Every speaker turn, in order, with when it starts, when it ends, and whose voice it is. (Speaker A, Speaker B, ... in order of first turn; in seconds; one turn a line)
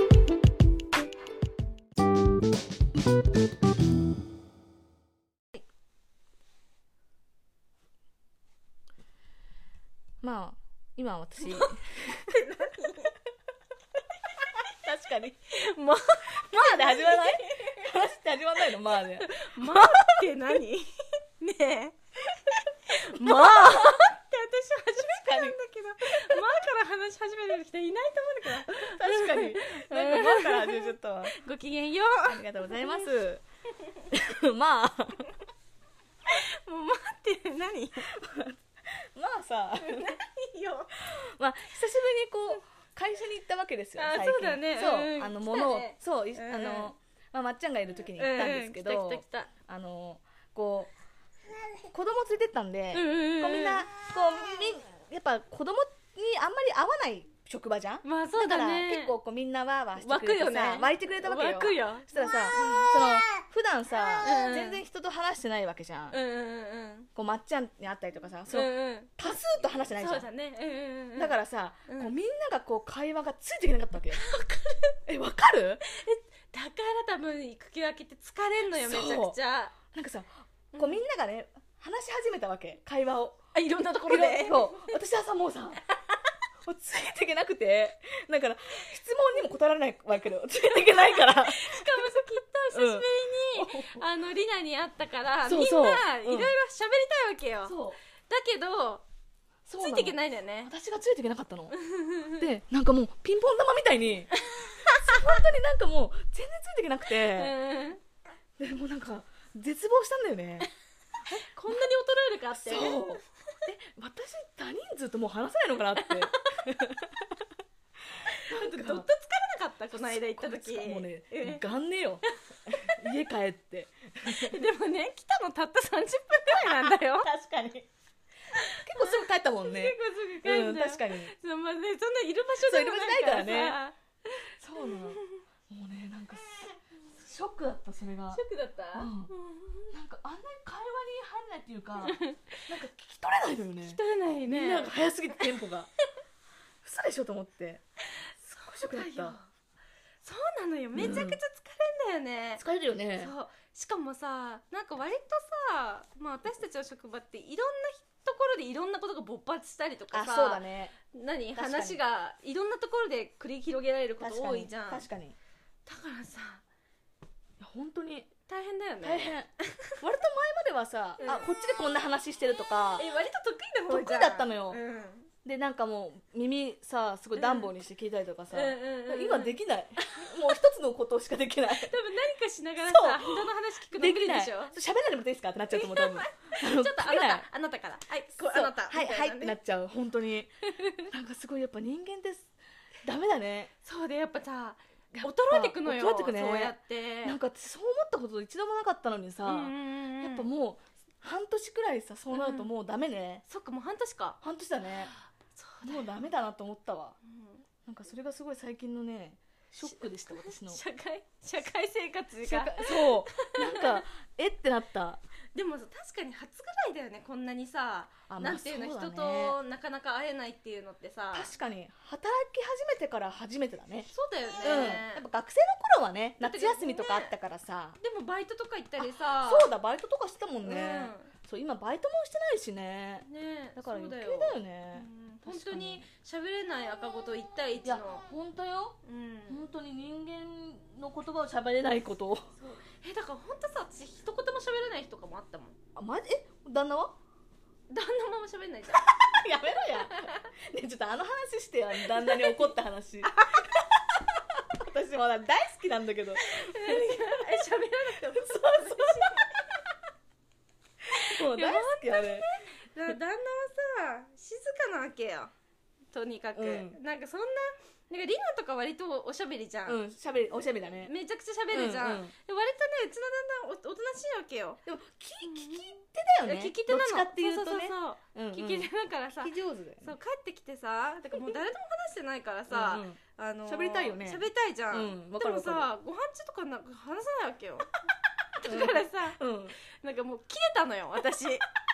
Speaker A: 10.2-12.3
Speaker B: 11.4-13.1
Speaker A: 14.4-15.4
Speaker B: 15.5-17.9
Speaker A: 16.4-20.6
Speaker B: 19.2-33.0
Speaker A: 23.1-24.1
Speaker A: 25.2-25.6
Speaker A: 28.5-31.4
Speaker A: 32.3-33.4
Speaker A: 34.1-35.3
Speaker B: 36.3-38.1
Speaker A: 38.1-40.2
Speaker B: 39.8-41.0
Speaker A: 41.0-50.9
Speaker B: 44.0-46.9
Speaker B: 48.2-49.5
Speaker A: 51.9-66.2
Speaker B: 52.9-53.9
Speaker B: 58.0-59.1
Speaker B: 60.0-63.2
Speaker B: 64.2-64.8
Speaker B: 66.1-67.1
Speaker A: 67.2-70.3
Speaker B: 68.5-69.3
Speaker B: 70.0-71.3
Speaker A: 71.2-74.3
Speaker B: 71.9-72.1
Speaker B: 74.1-75.0
Speaker A: 75.1-75.8
Speaker B: 75.9-79.8
Speaker A: 78.7-83.4
Speaker B: 83.5-85.0
Speaker A: 84.1-85.8
Speaker A: 86.6-92.2
Speaker B: 90.8-99.0
Speaker A: 92.7-94.0
Speaker A: 95.5-96.5
Speaker A: 97.7-98.0
Speaker A: 99.7-101.8
Speaker B: 99.8-100.7
Speaker B: 101.7-102.5
Speaker A: 102.3-107.6
Speaker B: 104.5-105.2
Speaker B: 107.3-108.0
Speaker A: 108.6-110.7
Speaker B: 111.3-113.2
Speaker A: 112.5-117.5
Speaker B: 116.0-116.4
Speaker A: 118.2-119.1
Speaker B: 118.3-121.6
Speaker A: 119.9-124.6
Speaker B: 124.3-127.3
Speaker A: 126.4-127.9
Speaker A: 128.6-131.3
Speaker B: 128.6-135.4
Speaker A: 132.6-133.8
Speaker A: 134.6-139.3
Speaker B: 138.3-139.9
Speaker A: 139.9-145.9
Speaker B: 142.0-142.6
Speaker B: 143.8-145.4
Speaker A: 146.8-147.8
Speaker B: 148.5-149.5
Speaker A: 148.7-149.4
Speaker B: 150.2-152.6
Speaker A: 151.0-151.4
Speaker A: 152.6-153.3
Speaker B: 153.2-165.1
Speaker A: 160.1-160.9
Speaker A: 161.6-162.0
Speaker A: 164.2-165.4
Speaker B: 165.9-166.6
Speaker A: 167.6-168.3
Speaker B: 168.5-169.9
Speaker A: 169.0-173.1
Speaker B: 171.2-171.5
Speaker B: 173.0-175.3
Speaker A: 173.9-174.8
Speaker A: 175.4-181.9
Speaker B: 177.4-177.7
Speaker B: 178.5-180.3
Speaker B: 181.7-184.7
Speaker A: 182.8-187.5
Speaker B: 185.7-189.6
Speaker A: 188.5-193.7
Speaker B: 190.8-191.1
Speaker B: 193.8-197.4
Speaker A: 195.1-203.4
Speaker B: 199.4-200.5
Speaker B: 202.3-202.7
Speaker B: 203.5-204.4
Speaker A: 204.4-205.1
Speaker B: 205.6-206.2
Speaker A: 205.8-207.2
Speaker B: 207.2-207.6
Speaker A: 207.9-210.8
Speaker B: 209.8-214.0
Speaker A: 212.4-215.2
Speaker B: 215.6-221.5
Speaker A: 218.3-219.6
Speaker A: 221.3-224.1
Speaker B: 224.1-225.2
Speaker A: 224.6-228.0
Speaker B: 226.4-227.3
Speaker B: 228.0-229.7
Speaker A: 229.0-236.1
Speaker B: 230.7-231.3
Speaker B: 233.2-238.3
Speaker A: 237.8-242.5
Speaker B: 239.0-239.6
Speaker B: 242.6-245.8
Speaker A: 246.0-247.2
Speaker B: 247.9-249.2
Speaker A: 248.9-257.6
Speaker B: 250.1-250.5
Speaker B: 252.1-252.7
Speaker B: 253.2-253.7
Speaker B: 256.4-259.7
Speaker A: 258.3-259.6
Speaker A: 261.1-262.5
Speaker B: 261.1-265.5
Speaker B: 266.1-270.0
Speaker A: 266.6-267.0
Speaker A: 269.9-271.1
Speaker B: 271.0-274.8
Speaker A: 271.7-272.3
Speaker A: 274.9-280.1
Speaker B: 275.4-288.0
Speaker A: 282.7-285.9
Speaker B: 288.6-291.6
Speaker A: 288.6-289.8